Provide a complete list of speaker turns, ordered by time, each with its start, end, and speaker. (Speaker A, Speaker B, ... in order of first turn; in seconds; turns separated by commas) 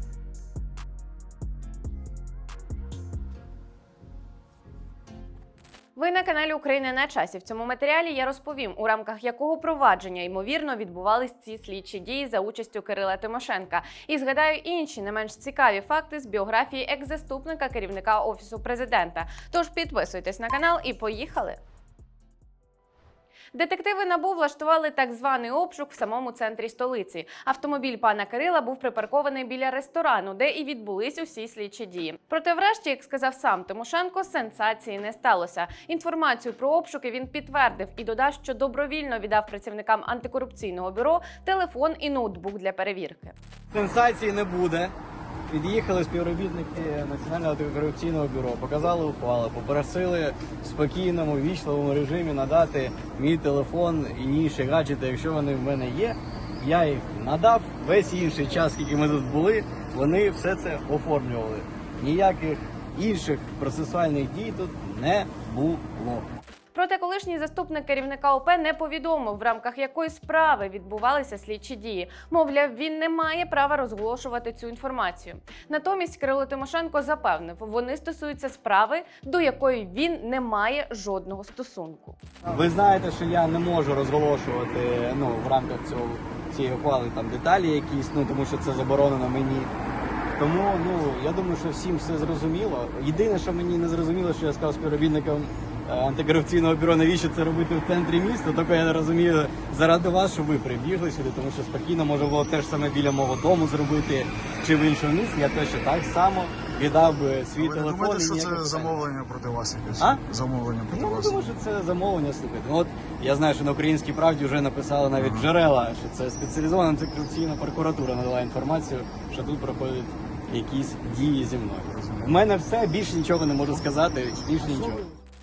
Speaker A: 6.0-21.6, Speaker A: 23.5-43.4, Speaker B: 43.7-44.9, Speaker B: 45.5-66.3, Speaker A: 66.7-82.2, Speaker B: 82.5-89.7, Speaker B: 90.4-109.0, Speaker C: 107.6-111.5, Speaker B: 110.9-125.1, Speaker C: 115.2-115.5, Speaker C: 121.9-122.3